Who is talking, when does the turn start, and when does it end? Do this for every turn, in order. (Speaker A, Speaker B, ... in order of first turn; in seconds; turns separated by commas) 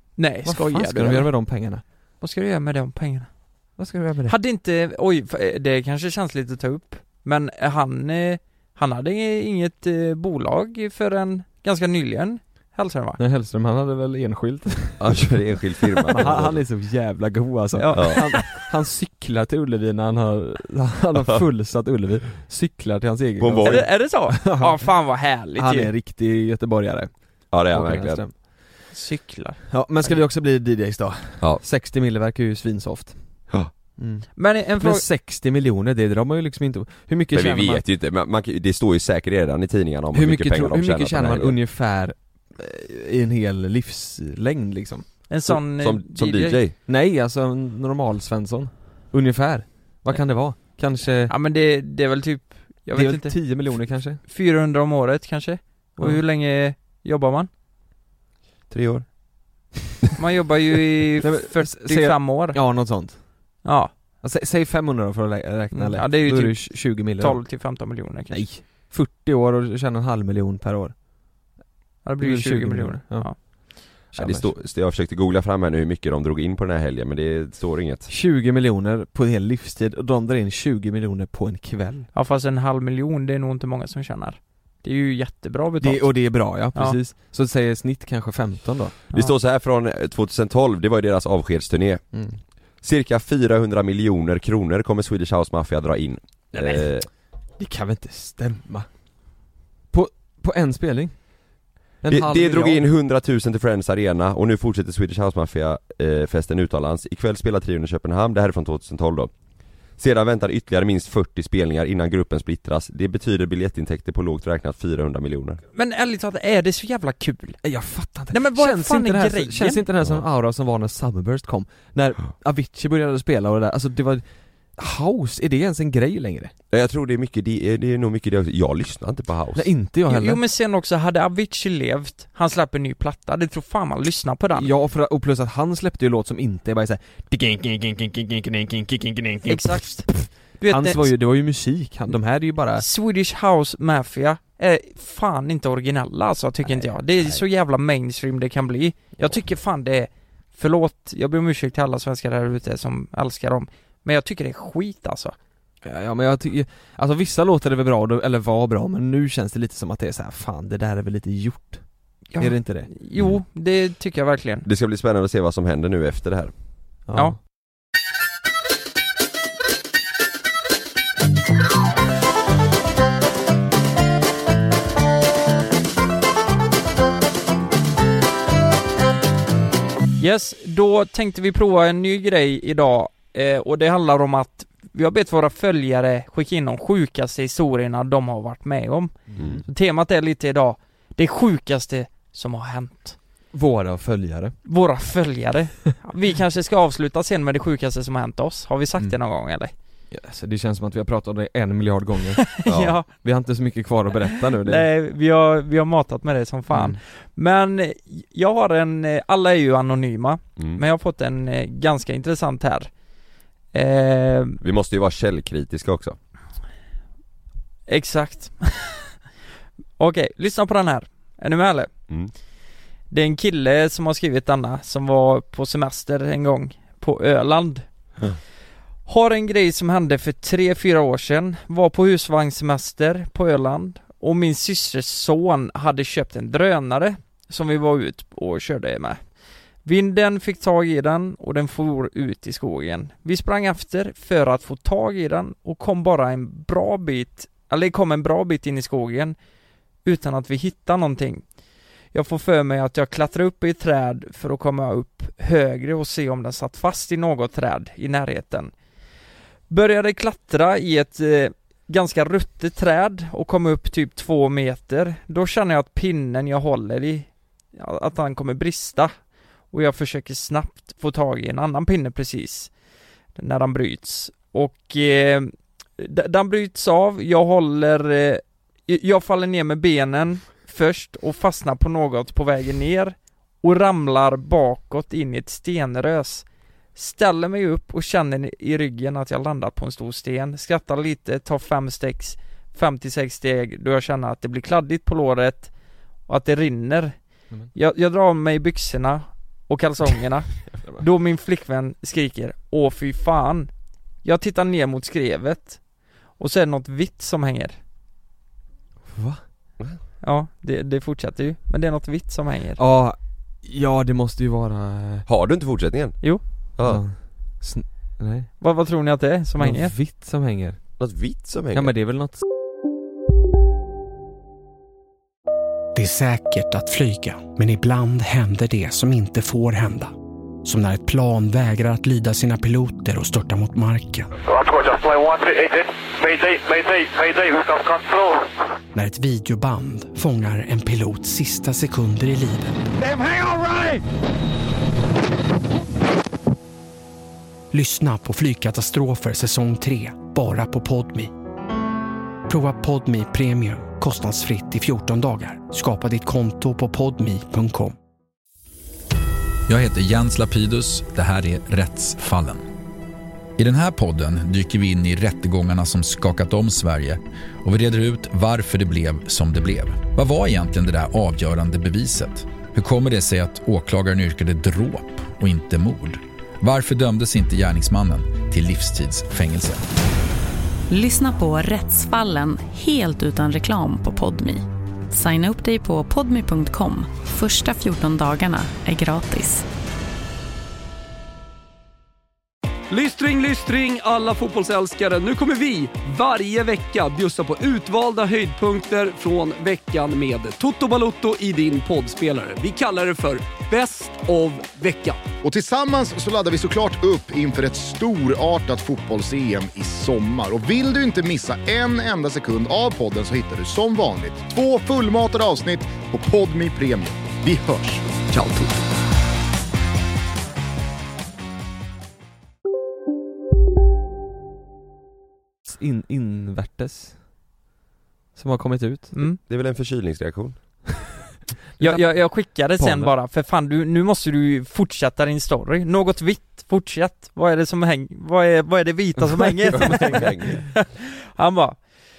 Speaker A: 0.2-13.2, Speaker B: 0.4-1.8, Speaker B: 3.8-4.3, Speaker B: 13.2-15.2, Speaker C: 15.0-16.6, Speaker B: 16.1-28.7, Speaker A: 17.8-18.4, Speaker C: 17.9-18.5, Speaker C: 23.4-23.9, Speaker A: 23.6-25.9, Speaker C: 27.5-28.2, Speaker A: 28.9-30.2, Speaker B: 29.7-37.8, Speaker A: 34.4-35.0, Speaker C: 37.3-41.6, Speaker B: 40.1-45.1, Speaker A: 45.3-46.6, Speaker C: 45.5-46.8, Speaker B: 46.9-51.3, Speaker A: 51.3-57.5, Speaker B: 52.9-54.2, Speaker C: 58.7-59.1, Speaker A: 60.2-62.9, Speaker B: 61.2-63.6, Speaker A: 63.6-63.9, Speaker B: 64.2-67.4, Speaker A: 65.7-68.5, Speaker B: 68.3-71.0, Speaker A: 72.0-73.7, Speaker B: 72.2-74.5, Speaker C: 74.1-78.1, Speaker B: 78.1-82.1, Speaker A: 82.1-87.0, Speaker B: 85.8-89.0, Speaker C: 89.1-92.0, Speaker B: 92.1-92.4, Speaker C: 92.8-97.1, Speaker B: 96.5-96.9, Speaker B: 97.6-98.9, Speaker B: 99.9-101.4, Speaker B: 102.0-102.8, Speaker C: 102.1-109.3, Speaker C: 110.0-115.6, Speaker A: 115.7-117.6, Speaker B: 117.6-126.5, Speaker A: 118.3-119.8, Speaker C: 126.7-129.7, Speaker B: 129.5-130.4, Speaker A: 130.1-134.7, Speaker B: 134.5-142.8, Speaker A: 139.4-141.1, Speaker A: 142.8-155.3, Speaker B: 146.6-147.4, Speaker B: 155.8-162.9, Speaker A: 162.3-164.7, Speaker C: 164.6-166.5, Speaker B: 167.1-167.4, Speaker A: 180.2-193.2, Speaker B: 189.3-189.6, Speaker C: 189.4-189.6, Speaker B: 193.5-194.6, Speaker A: 194.6-199.7, Speaker B: 200.1-202.4, Speaker A: 202.5-203.1, Speaker C: 202.7-202.9, Speaker B: 203.1-204.9, Speaker A: 204.6-212.9, Speaker B: 206.7-207.0, Speaker A: 213.7-214.6, Speaker C: 214.6-216.2, Speaker A: 217.9-219.1, Speaker A: 220.0-221.9, Speaker A: 223.1-227.8, Speaker A: 229.1-239.2, Speaker A: 239.8-249.3, Speaker A: 250.0-251.4, Speaker A: 252.1-258.7, Speaker A: 259.7-269.1, Speaker A: 269.7-272.7, Speaker A: 273.3-295.7, Speaker A: 296.2-303.7, Speaker A: 304.2-305.8, Speaker A: 306.4-307.8, Speaker B: 309.1-309.4, Speaker A: 310.2-312.8, Speaker B: 312.8-315.2, Speaker C: 315.3-316.2, Speaker C: 316.8-317.0, Speaker B: 316.8-318.5, Speaker A: 318.6-319.9, Speaker B: 319.6-320.8, Speaker C: 321.0-321.9, Speaker B: 321.7-322.4, Speaker D: 325.9-330.1, Speaker D: 330.6-334.3, Speaker E: 334.4-338.5, Speaker D: 338.9-342.8, Speaker D: 347.7-351.3, Speaker D: 352.5-357.9, Speaker F: 359.7-362.6, Speaker F: 363.6-379.8, Speaker G: 380.9-389.6, Speaker H: 392.9-405.2, Speaker I: 405.4-418.2, Speaker B: 418.3-418.6, Speaker B: 425.6-427.2, Speaker B: 428.3-429.1, Speaker A: 429.1-429.4, Speaker C: 429.4-430.9, Speaker B: 431.8-433.1, Speaker A: 431.8-441.8, Speaker B: 439.2-440.6, Speaker C: 439.9-440.6